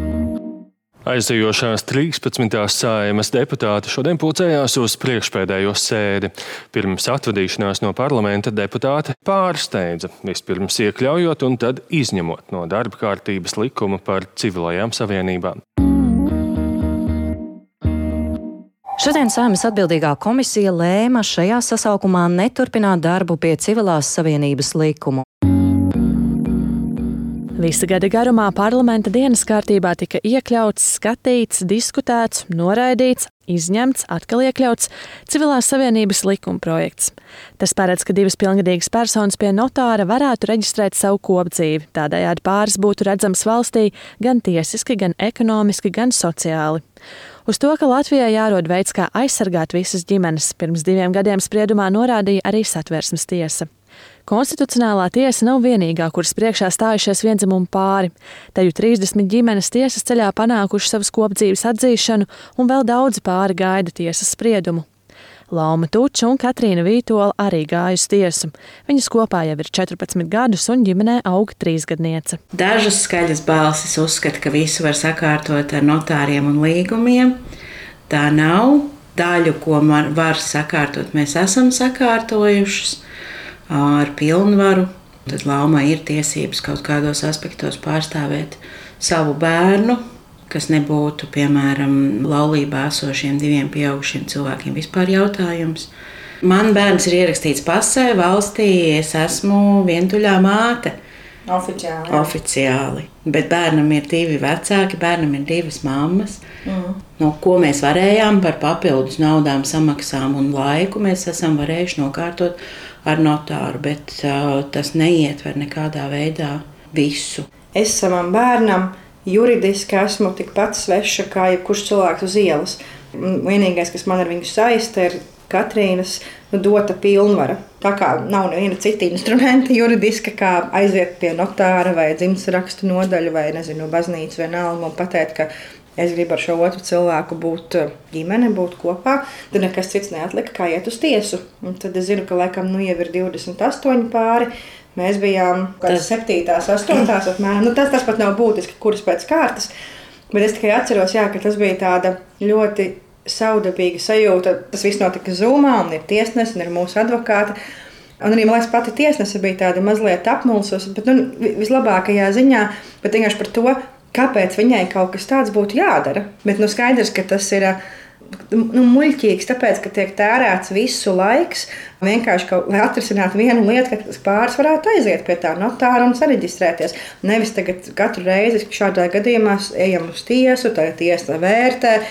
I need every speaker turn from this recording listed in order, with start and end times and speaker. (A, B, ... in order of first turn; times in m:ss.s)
0:01.1-0:15.6 A
0:19.0-0:25.2 B
0:27.6-0:46.8 C
0:47.5-0:53.7 C
0:54.3-1:04.9 C
1:05.5-1:12.4 C
1:12.5-1:17.4 D
1:18.1-1:23.0 D
1:23.7-1:35.9 D
1:36.4-1:41.0 D
1:41.5-1:42.3 E
1:42.1-1:46.4 D
1:46.6-1:47.0 E
1:47.2-1:57.5 D
1:57.7-2:29.7 E
2:30.3-2:37.6 E
2:38.2-2:47.8 E
2:48.5-3:02.0 E